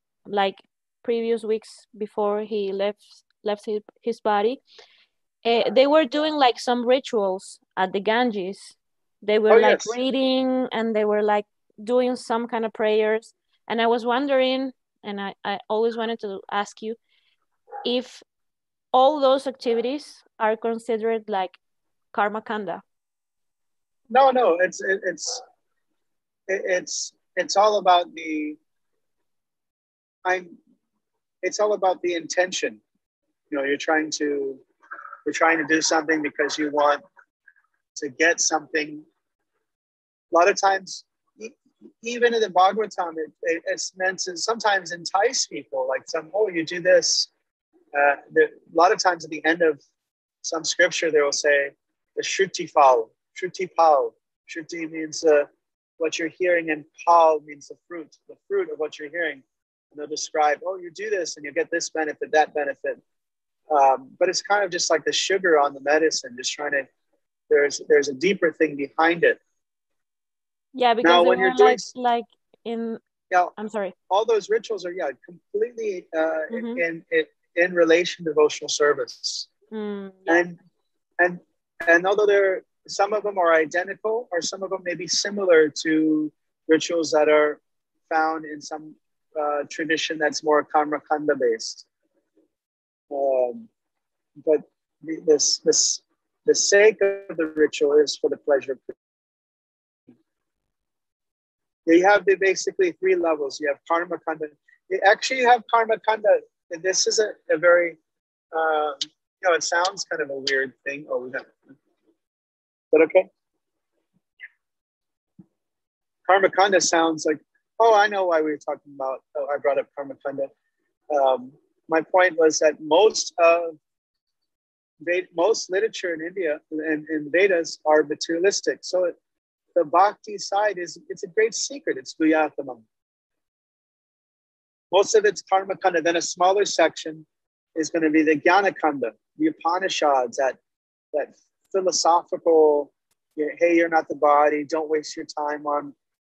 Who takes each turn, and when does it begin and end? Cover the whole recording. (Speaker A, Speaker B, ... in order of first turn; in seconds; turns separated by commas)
Speaker A: 0.2-4.6, Speaker A: 5.4-17.0, Speaker B: 9.5-10.0, Speaker A: 17.8-18.2, Speaker A: 18.9-21.6, Speaker A: 22.1-22.8, Speaker B: 24.1-25.4, Speaker B: 26.5-28.6, Speaker B: 30.2-30.6, Speaker B: 31.4-32.8, Speaker B: 33.5-34.6, Speaker B: 35.2-37.0, Speaker B: 38.0-39.0, Speaker B: 40.3-47.3, Speaker B: 47.9-49.8, Speaker B: 50.4-55.5, Speaker B: 56.0-63.0, Speaker B: 63.7-66.9, Speaker B: 67.5-69.4, Speaker A: 70.7-73.0, Speaker B: 71.0-71.9, Speaker A: 73.6-73.9, Speaker B: 74.1-79.5, Speaker A: 76.5-76.8, Speaker A: 79.7-80.5, Speaker B: 80.3-80.6, Speaker B: 81.2-87.6, Speaker B: 88.1-91.8, Speaker B: 93.1-93.7, Speaker B: 94.4-98.9, Speaker B: 101.8-108.0, Speaker B: 108.5-111.5, Speaker B: 112.9-113.3, Speaker B: 116.2-120.5, Speaker B: 121.1-123.8, Speaker B: 125.0-129.2, Speaker B: 129.7-132.8, Speaker B: 134.9-140.6, Speaker B: 141.1-145.9